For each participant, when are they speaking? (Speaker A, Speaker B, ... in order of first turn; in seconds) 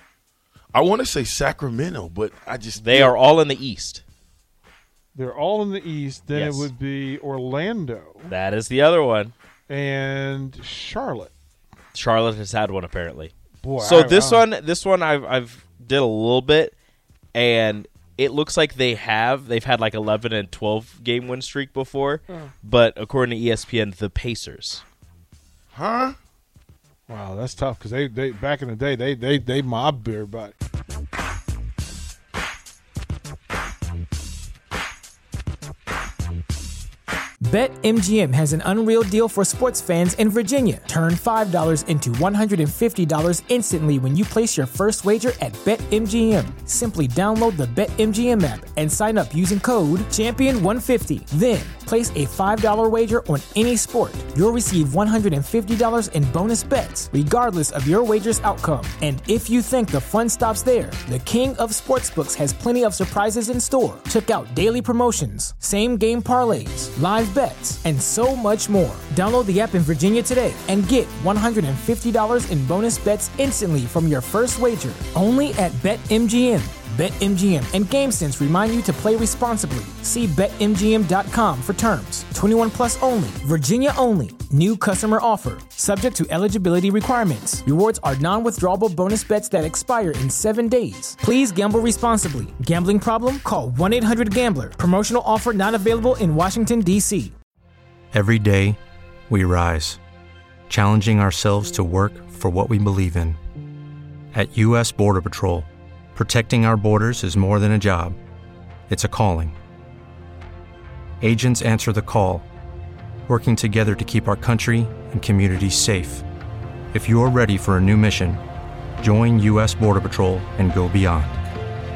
Speaker A: 0.7-3.1, 25.7-26.2
Speaker B: 2.8-4.0, 6.3-6.7, 8.3-9.3, 11.9-16.7, 17.3-24.8
Speaker C: 5.1-8.3, 9.7-11.3, 13.6-14.4, 27.1-30.5
Speaker D: 37.4-97.3
Speaker E: 98.1-100.0, 100.7-103.4, 104.3-108.2, 108.9-109.5, 111.2-112.5, 113.3-116.2, 116.9-118.4, 119.0-121.4